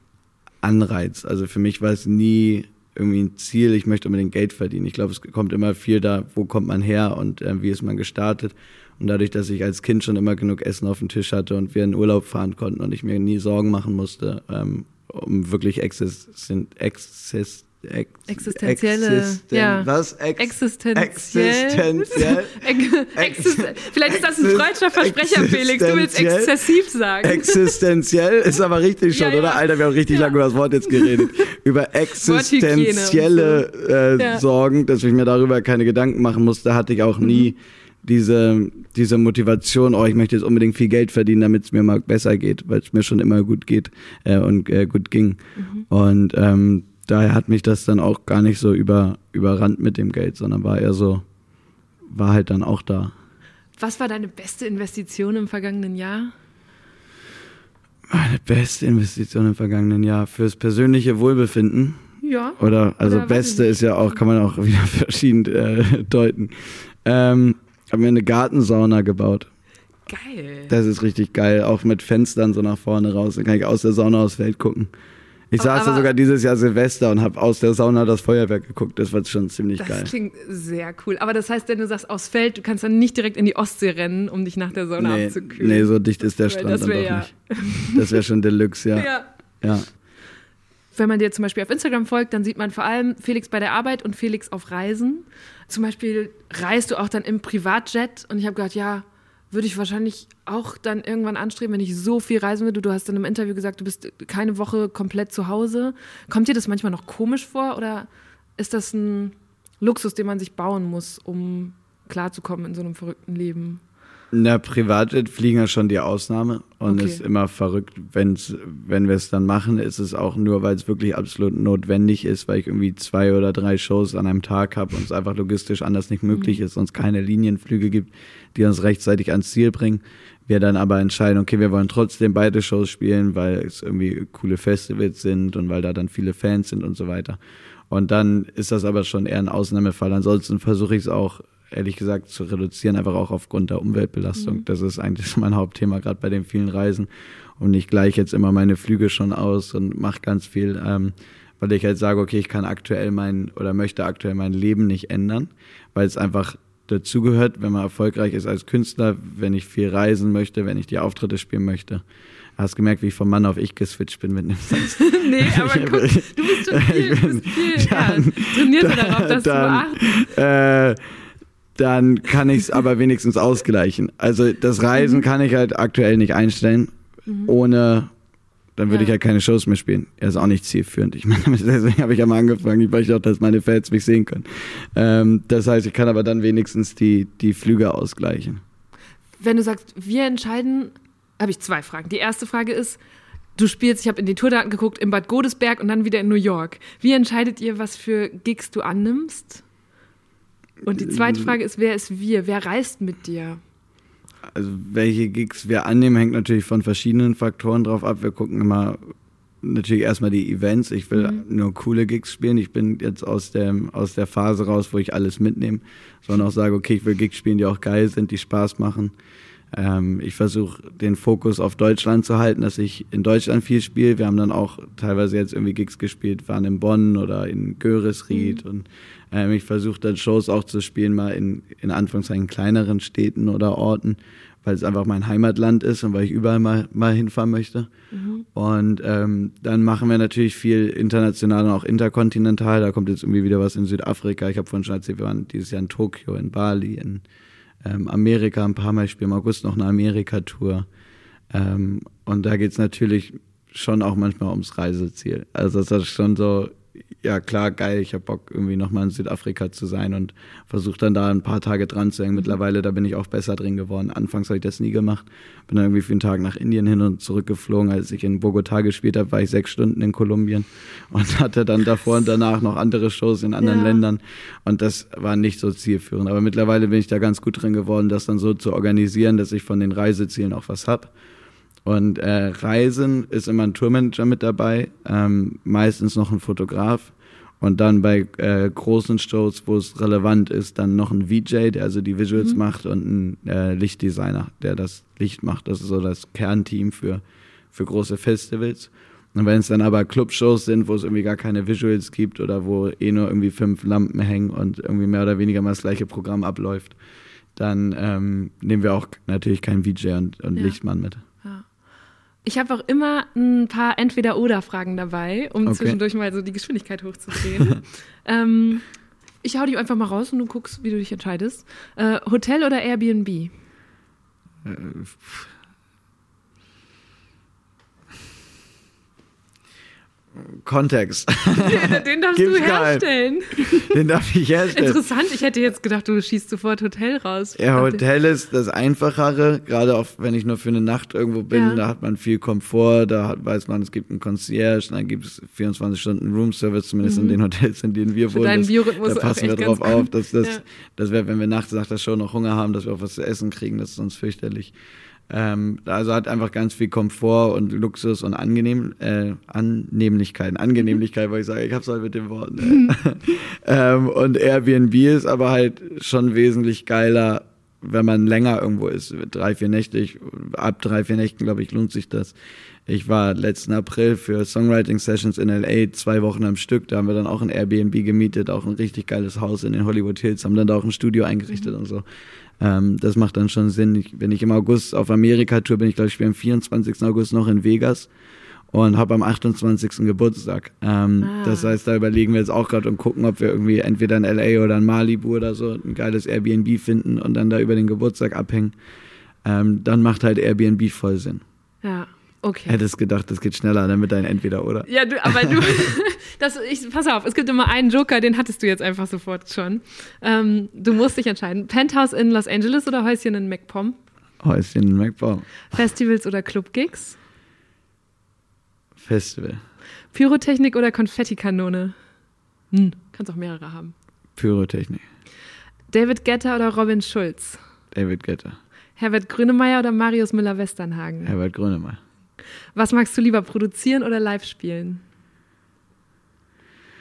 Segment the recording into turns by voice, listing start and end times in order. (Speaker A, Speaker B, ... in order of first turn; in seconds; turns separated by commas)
Speaker A: 0.6-26.6, Speaker B: 18.3-27.8, Speaker A: 27.2-51.2, Speaker B: 29.1-30.4, Speaker B: 30.9-31.3, Speaker B: 32.2-33.6, Speaker B: 34.2-34.4, Speaker B: 37.2-37.5, Speaker B: 45.6-45.9, Speaker A: 52.1-53.1, Speaker B: 53.8-56.3, Speaker A: 58.1-62.0, Speaker B: 62.2-64.2, Speaker A: 62.6-69.5, Speaker B: 70.1-70.7, Speaker A: 70.7-74.9, Speaker A: 75.5-80.1, Speaker B: 75.6-76.1, Speaker B: 79.8-88.2, Speaker A: 85.0-87.3, Speaker A: 87.9-89.1, Speaker B: 89.0-89.3, Speaker A: 89.6-89.9, Speaker B: 90.9-113.8, Speaker A: 114.3-137.4, Speaker B: 116.9-117.2, Speaker B: 126.3-126.6, Speaker A: 137.9-162.0, Speaker B: 144.4-144.6, Speaker A: 162.6-171.0, Speaker B: 165.0-170.3, Speaker A: 171.8-176.9, Speaker B: 175.0-175.2, Speaker A: 177.4-178.1, Speaker A: 178.8-188.6, Speaker B: 178.9-179.1, Speaker B: 189.4-193.0, Speaker B: 193.6-199.6, Speaker B: 200.8-203.6, Speaker A: 201.0-201.5, Speaker A: 204.5-219.1, Speaker B: 211.1-211.4, Speaker A: 219.7-237.9, Speaker B: 228.3-228.6, Speaker B: 238.1-238.4, Speaker A: 238.5-247.2, Speaker A: 247.8-250.9, Speaker A: 251.5-281.1, Speaker B: 273.6-274.0, Speaker A: 281.9-297.2, Speaker A: 297.7-306.9, Speaker A: 307.6-311.2, Speaker B: 312.4-318.9, Speaker A: 315.7-316.0, Speaker B: 319.4-323.5, Speaker A: 324.6-325.5, Speaker A: 330.4-333.1, Speaker B: 331.6-334.0, Speaker A: 333.7-335.0, Speaker B: 334.7-338.0, Speaker A: 337.6-354.7, Speaker B: 341.5-341.8, Speaker B: 347.0-347.4, Speaker B: 348.3-350.6, Speaker A: 355.3-372.3, Speaker A: 372.9-382.1, Speaker A: 382.6-388.1, Speaker A: 388.7-398.7, Speaker B: 391.2-391.7, Speaker A: 399.4-401.4, Speaker B: 401.8-402.8, Speaker A: 402.7-404.9, Speaker B: 404.9-414.0, Speaker A: 414.4-415.6, Speaker B: 415.7-417.2, Speaker A: 419.0-419.6, Speaker B: 420.1-421.9, Speaker B: 422.7-423.9, Speaker A: 424.4-425.1, Speaker B: 425.9-427.6, Speaker A: 427.9-428.6, Speaker B: 429.0-431.3, Speaker A: 431.2-432.0, Speaker B: 432.8-435.0